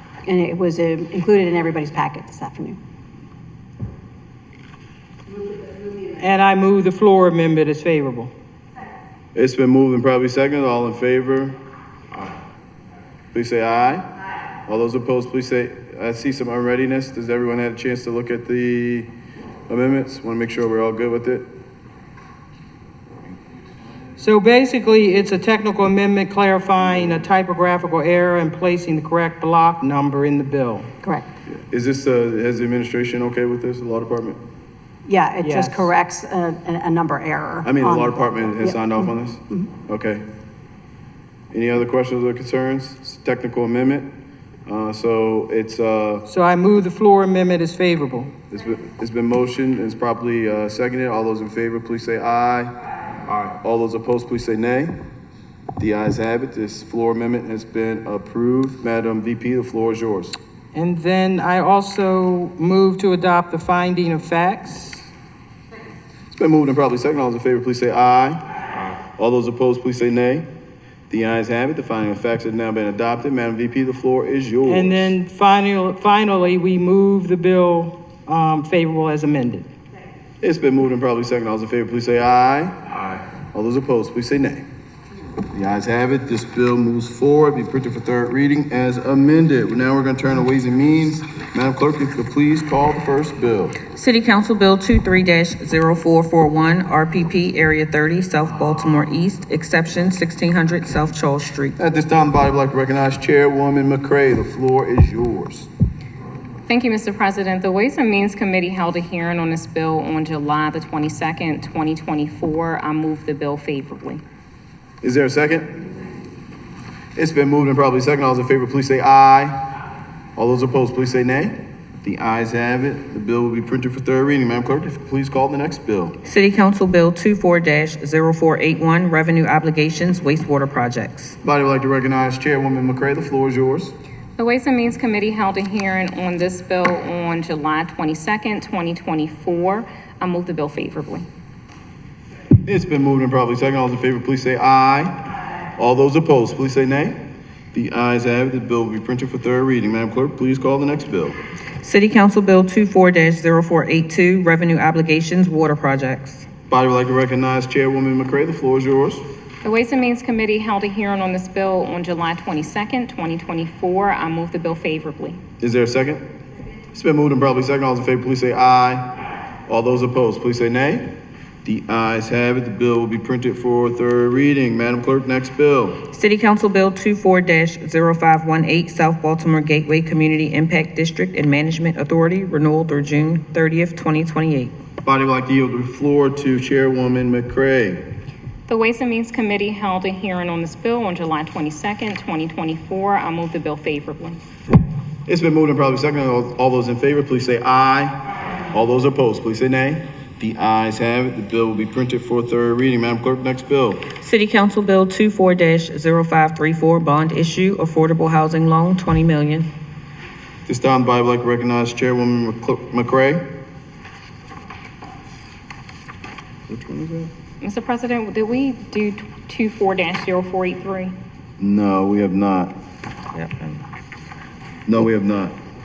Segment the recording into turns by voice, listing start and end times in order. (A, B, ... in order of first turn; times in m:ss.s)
0:00.2-0:02.8 A
0:06.2-0:08.3 B
0:09.3-0:11.6 C
0:13.3-0:14.1 C
0:14.7-0:19.1 C
0:19.7-0:21.5 C
0:24.2-0:30.9 B
0:31.0-0:31.3 A
0:31.6-0:34.4 C
0:35.0-0:38.8 A
0:35.4-0:35.9 B
0:37.6-0:40.2 C
0:41.5-0:44.1 C
0:44.6-0:46.2 C
0:46.3-0:48.3 B
0:48.5-0:52.7 C
0:53.3-0:55.0 C
0:55.8-1:00.4 C
1:00.7-1:05.0 B
1:06.3-1:08.4 C
1:09.2-1:10.4 C
1:11.1-1:15.1 C
1:14.6-1:19.7 B
1:20.4-1:22.7 C
1:23.5-1:24.6 C
1:25.5-1:33.8 C
1:33.9-1:41.7 D
1:41.8-1:45.7 C
1:46.7-1:54.2 E
1:55.0-1:55.7 C
1:57.2-1:59.6 C
2:00.4-2:06.2 C
2:06.2-2:11.4 D
2:11.4-2:13.9 C
2:14.4-2:21.3 E
2:22.6-2:25.1 C
2:25.8-2:27.2 C
2:27.7-2:31.4 C
2:31.8-2:36.5 D
2:36.7-2:39.2 C
2:39.6-2:45.4 E
2:45.6-2:46.2 C
2:46.9-2:49.1 C
2:49.7-2:51.1 C
2:51.6-2:56.0 C
2:56.1-3:04.7 D
3:05.0-3:08.0 C
3:08.7-3:14.4 E
3:15.3-3:18.2 C
3:18.7-3:24.0 C
3:24.2-3:29.7 D
3:30.6-3:33.4 C
3:36.7-3:37.3 C
3:37.6-3:41.1 E
3:41.6-3:42.7 C
3:43.3-3:43.8 D
3:44.9-3:45.5 C